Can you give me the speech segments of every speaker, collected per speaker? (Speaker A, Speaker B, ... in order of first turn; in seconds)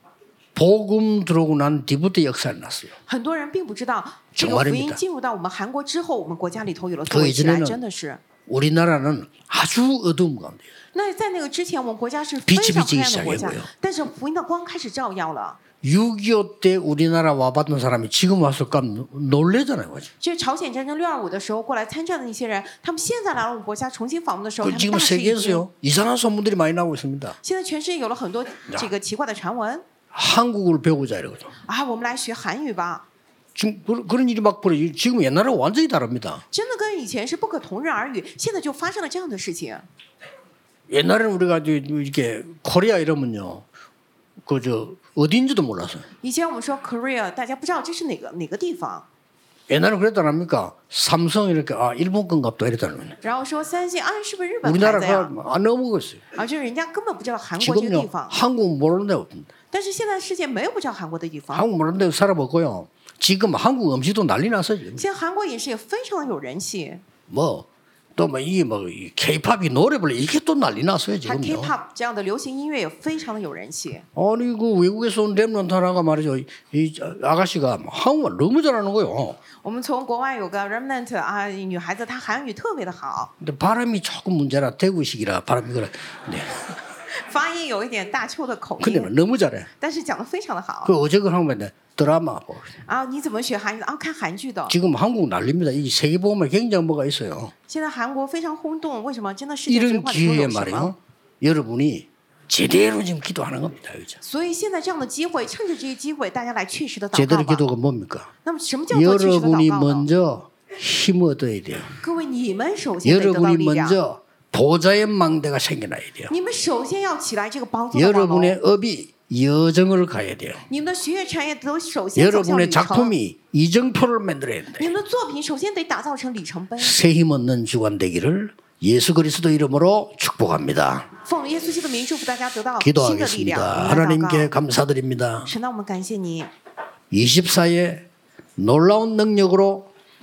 Speaker A: 0.5-2.9, 4.3-5.0, 7.1-7.8, 8.5-10.7, 12.4-13.7, 15.8-20.1, 24.6-27.4, 30.1-31.5, 33.5-36.4, 40.9-43.6, 44.4-46.0, 49.7-53.1, 54.6-56.2, 57.6-59.5, 61.5-65.0, 67.3-71.7, 74.1-79.4, 83.4-86.5, 88.8-89.7, 90.8-92.7, 94.7-97.5, 99.7-104.2, 107.1-108.3, 108.9-112.0, 113.0-116.3, 117.9-120.6, 122.2-124.9, 126.8-131.1, 132.8-135.5, 137.1-138.1, 138.6-139.9
Speaker B: 3.1-8.2, 10.9-15.6, 20.2-25.6, 27.4-29.9, 31.6-33.0, 36.5-39.9, 46.2-49.1, 53.2-55.3, 56.3-58.4, 59.7-61.6, 64.9-67.0, 71.2-74.1, 79.6-83.3, 87.1-89.1, 89.8-90.9, 92.8-94.8, 97.7-100.9, 104.2-107.6, 108.4-110.1, 112.0-114.0, 116.3-118.6, 120.7-123.1, 124.8-127.0, 131.2-134.5, 135.4-136.5